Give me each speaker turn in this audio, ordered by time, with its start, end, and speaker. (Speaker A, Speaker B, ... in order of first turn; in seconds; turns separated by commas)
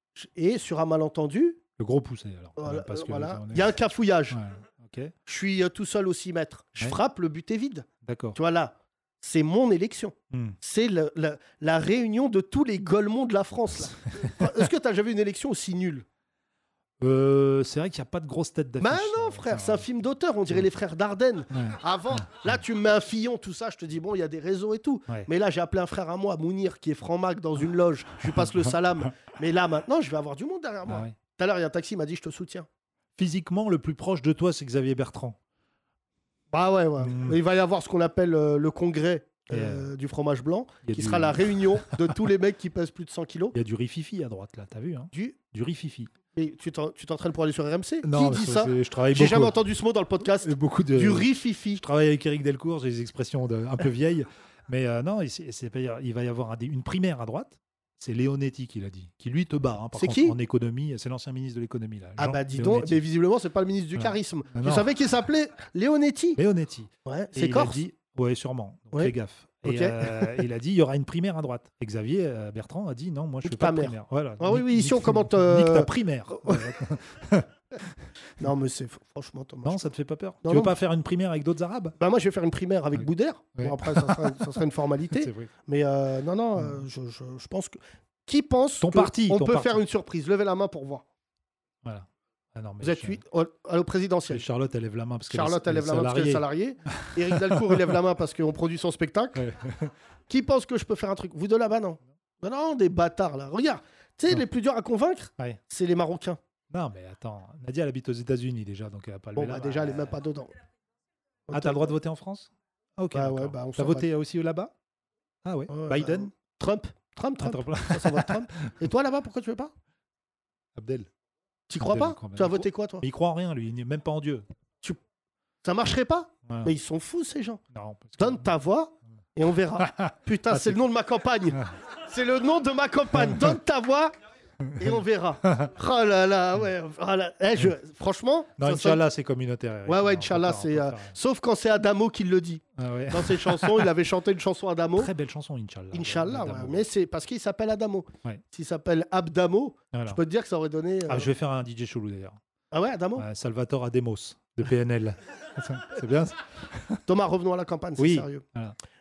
Speaker A: 0.1-1.6, Speaker B: 1.8-3.8, Speaker A: 2.6-4.4, Speaker B: 4.3-5.1, Speaker A: 5.3-16.1, Speaker B: 8.0-8.4, Speaker B: 10.3-10.6, Speaker B: 17.0-19.9, Speaker A: 18.8-32.7, Speaker B: 21.5-22.3, Speaker B: 30.9-31.1, Speaker B: 33.2-35.4, Speaker A: 36.5-43.6, Speaker B: 37.0-37.4, Speaker B: 39.5-39.9, Speaker B: 40.9-42.1, Speaker B: 43.5-46.1, Speaker A: 46.3-51.8, Speaker B: 48.0-49.6, Speaker B: 50.3-63.0, Speaker A: 60.0-60.4, Speaker A: 62.2-66.4, Speaker B: 64.0-65.0, Speaker B: 66.4-78.0, Speaker A: 67.0-67.8, Speaker A: 68.9-70.5, Speaker A: 73.4-76.7, Speaker A: 78.4-79.9, Speaker B: 79.6-82.0, Speaker A: 80.4-80.8, Speaker A: 82.0-91.0, Speaker B: 83.0-84.6, Speaker B: 85.1-85.5, Speaker B: 86.6-86.8, Speaker B: 88.8-89.8, Speaker B: 91.8-93.2, Speaker A: 92.8-94.5, Speaker B: 94.3-97.9, Speaker A: 95.3-99.4, Speaker B: 99.3-99.9, Speaker A: 100.3-106.4, Speaker B: 106.7-110.2, Speaker A: 109.4-110.5, Speaker A: 111.5-111.9, Speaker B: 111.5-114.7, Speaker A: 113.1-114.1, Speaker B: 115.4-116.3, Speaker A: 115.7-119.7, Speaker B: 117.4-118.7, Speaker B: 120.8-121.1, Speaker A: 121.7-123.0, Speaker B: 121.8-124.5, Speaker A: 125.6-127.6, Speaker B: 126.5-126.7, Speaker B: 127.7-128.5, Speaker A: 128.2-134.1, Speaker B: 129.8-130.8, Speaker B: 133.2-133.5, Speaker B: 134.6-134.9, Speaker A: 134.8-139.0, Speaker B: 138.6-141.2, Speaker A: 139.9-145.1, Speaker B: 142.8-143.9, Speaker B: 145.0-146.9, Speaker A: 145.9-151.3, Speaker B: 149.9-150.2, Speaker B: 151.1-152.4, Speaker A: 152.7-153.3, Speaker B: 153.2-157.0, Speaker A: 157.1-158.4, Speaker B: 158.0-158.8